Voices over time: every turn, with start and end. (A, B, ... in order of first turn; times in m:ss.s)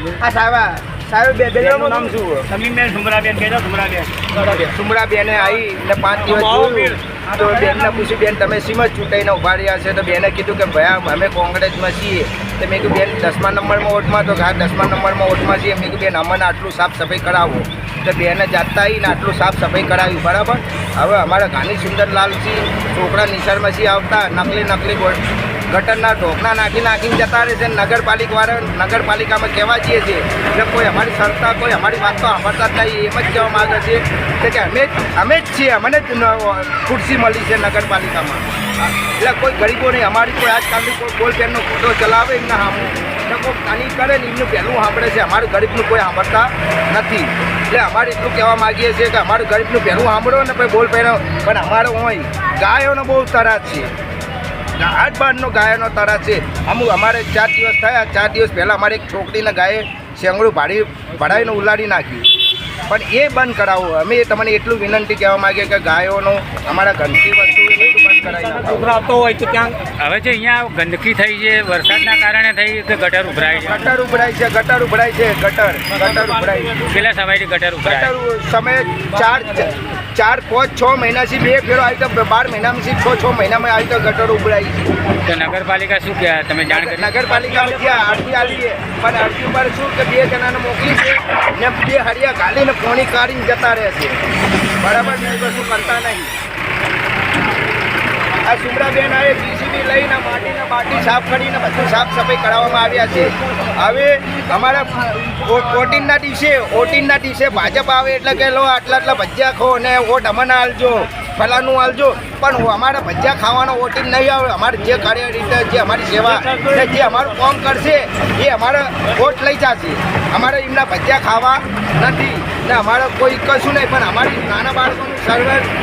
0:00.2-0:02.4 A
0:01.6-0:04.7 B
0:04.6-0:25.2 A
0:06.2-0:07.1 B
0:25.7-0:53.9 A
0:54.8-1:02.2 A
1:02.9-1:09.0 A
1:08.8-1:09.8 B
1:10.0-1:13.8 C
1:13.6-1:16.8 A
1:16.8-1:18.1 C
1:17.8-1:24.9 A
1:25.2-1:27.2 C
1:26.7-1:34.2 A
1:27.4-1:28.4 B
1:34.8-1:36.3 A
1:38.4-2:05.7 A
1:56.4-1:56.8 B